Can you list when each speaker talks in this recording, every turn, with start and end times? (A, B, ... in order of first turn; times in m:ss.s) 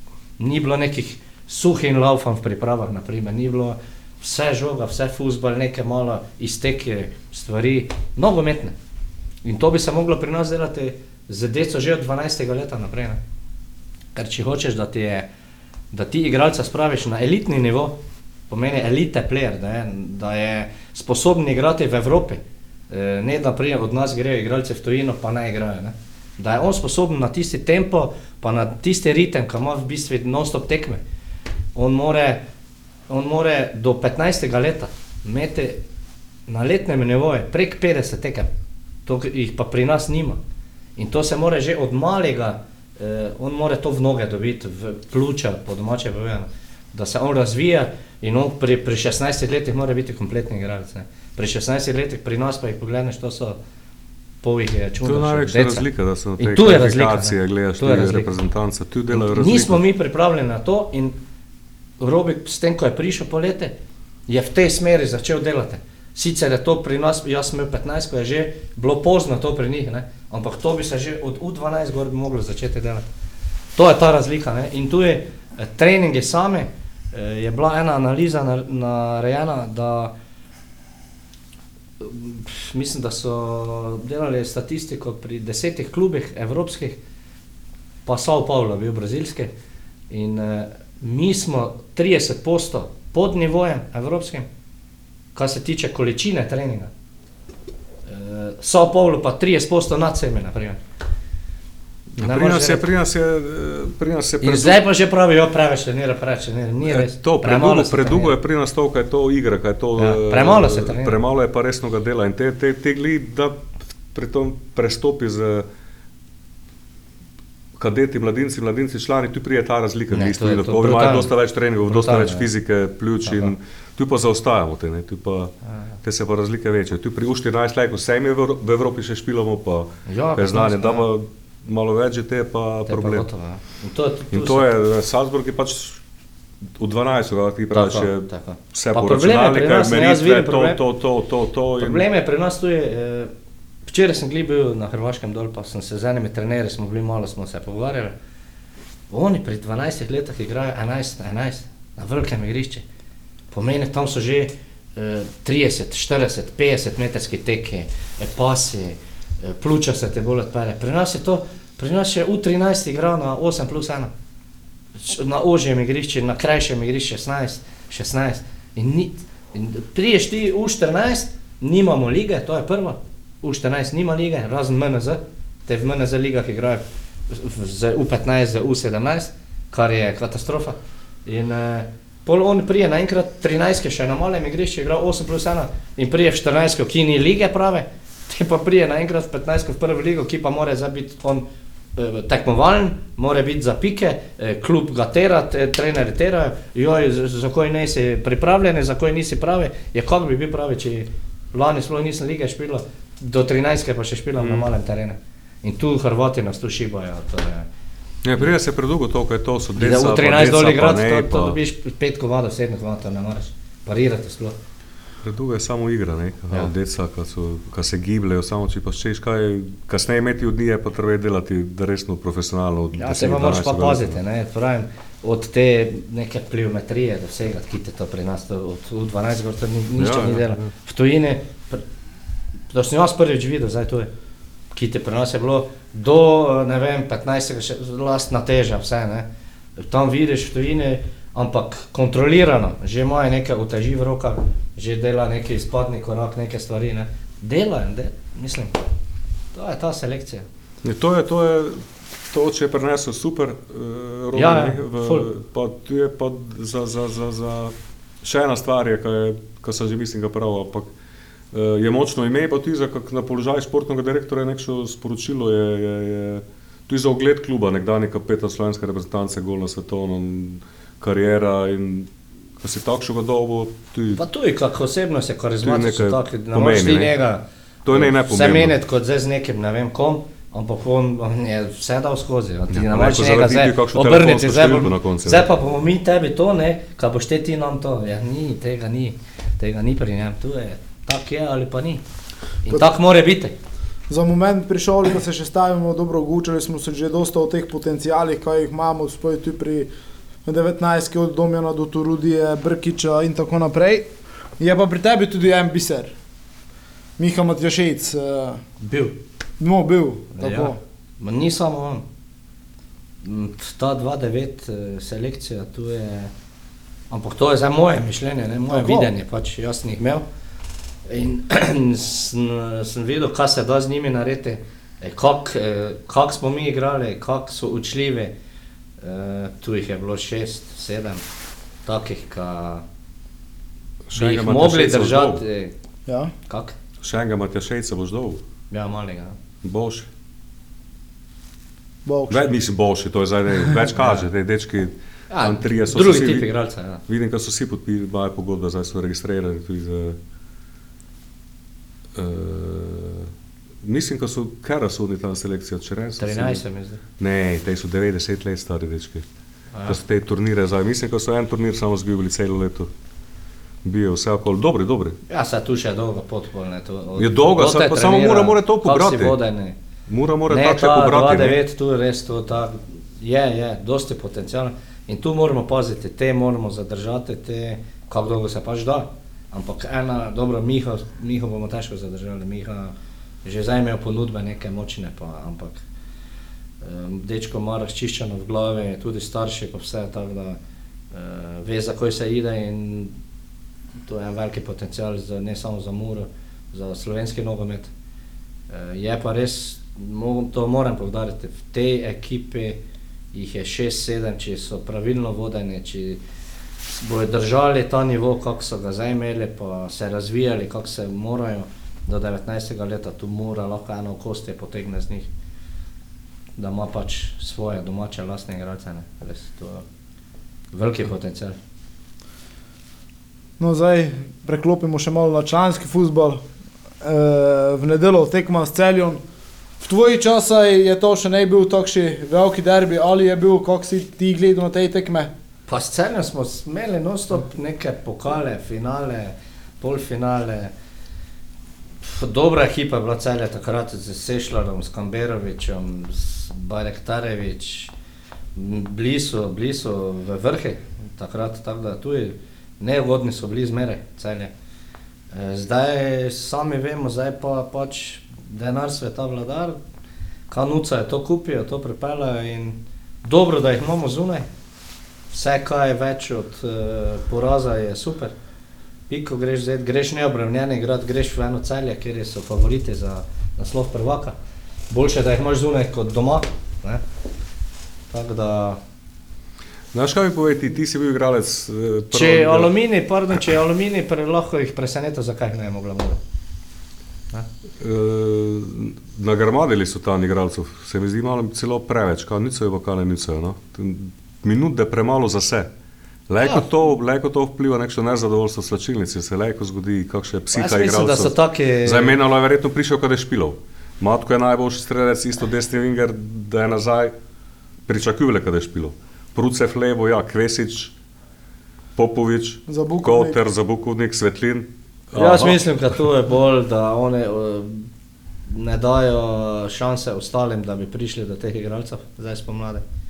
0:00.4-0:08.7 A
0:09.4-0:13.2 A
0:14.2-0:15.3 A
0:15.9-0:18.0 A
0:18.5-0:31.0 A
0:31.8-0:32.4 A
0:33.1-0:35.8 A
0:36.5-0:38.5 A
0:39.1-0:40.4 A
0:41.0-0:53.6 A
0:54.4-0:55.9 A
0:55.0-0:59.8 B
0:56.4-0:58.3 A
0:59.1-1:01.2 A
1:02.0-1:03.7 A
1:04.3-1:13.0 A
1:13.8-1:20.1 A
1:22.0-1:27.0 A
1:28.1-1:29.5 A
1:30.1-1:34.5 A
1:35.4-1:36.9 A
1:38.1-1:40.8 A
1:42.2-1:42.9 A
1:42.2-1:44.8 B
1:44.4-1:48.4 A
1:46.9-1:53.6 B
1:50.0-1:51.2 A
1:54.1-1:55.7 B
1:57.8-2:05.5 B
2:00.1-2:01.3 A
2:01.9-2:02.5 A
2:03.2-2:03.6 A
2:06.0-2:13.3 B
2:10.1-2:11.0 A
2:12.9-2:14.7 A
2:14.3-2:16.0 B
2:16.8-2:22.0 B
2:17.7-2:20.8 A
2:21.8-2:23.3 A
2:23.9-2:28.2 A
2:29.1-2:32.8 A
2:33.5-2:44.1 A
2:45.0-3:11.4 A
3:12.0-3:27.7 A
3:24.4-3:24.7 B
3:28.2-3:31.6 B
3:29.8-3:34.6 A
3:35.2-3:44.2 B
3:43.0-3:51.8 A
3:50.0-3:50.7 B
3:52.7-3:54.1 A
3:54.7-4:08.8 A
4:09.5-4:10.5 A
4:10.8-4:20.9 B
4:14.3-4:15.3 A
4:21.5-4:32.1 B
4:32.6-4:34.2 B
4:34.2-4:52.0 A
4:35.6-4:37.2 B
4:37.8-4:38.8 B
4:42.7-4:45.5 B
4:52.6-4:53.6 A
4:54.1-4:59.9 C
5:00.4-5:06.2 C
5:07.2-5:08.6 C
5:08.8-5:09.2 A
5:09.6-5:10.8 C
5:10.4-5:12.0 A
5:13.2-5:16.3 A
5:17.1-5:20.2 A
5:18.7-5:19.1 C
5:21.1-5:28.3 A
5:29.0-5:31.2 A
5:31.8-5:32.8 A
5:34.1-5:35.4 B
5:34.2-5:35.7 A
5:36.1-5:36.3 C
5:36.5-5:36.8 A
5:37.0-5:38.4 B
5:38.7-5:39.4 A
5:39.6-5:40.1 B
5:42.0-5:42.5 C
5:42.3-5:46.5 B
5:44.0-5:44.2 A
5:45.3-5:47.0 A
5:47.1-5:50.2 B
5:52.2-5:53.3 B
5:53.8-5:56.6 B
5:56.2-5:57.0 A
5:57.2-5:59.2 B
5:59.7-6:00.0 A
5:59.9-6:02.9 B
6:03.8-6:05.2 B
6:05.3-6:09.8 A
6:07.2-6:09.4 B
6:10.1-6:11.6 B
6:10.5-6:25.8 A
6:26.8-6:30.6 A
6:31.1-6:33.2 A
6:34.0-6:37.9 A
6:38.7-6:42.8 A
6:43.3-6:46.2 A
6:46.9-6:55.3 A
6:56.6-6:59.8 A
7:00.7-7:01.6 A
7:03.6-7:06.4 C
7:07.0-7:09.2 C
7:09.8-7:15.3 C
7:15.7-7:20.7 A
7:22.0-7:27.9 A
7:28.6-7:34.5 A
7:35.3-7:39.8 A
7:40.5-7:44.5 A
7:45.3-7:48.3 A
7:49.1-7:54.4 A
7:54.9-7:57.0 A
7:58.1-7:58.8 A
7:59.9-8:02.7 B
8:02.1-8:06.2 A
8:07.8-8:15.7 B
8:16.3-8:27.1 B
8:16.4-8:16.7 A
8:20.5-8:22.2 A
8:27.9-8:30.9 B
8:32.0-8:35.6 B
8:32.7-8:33.4 C
8:35.1-8:37.9 A
8:38.5-8:42.8 A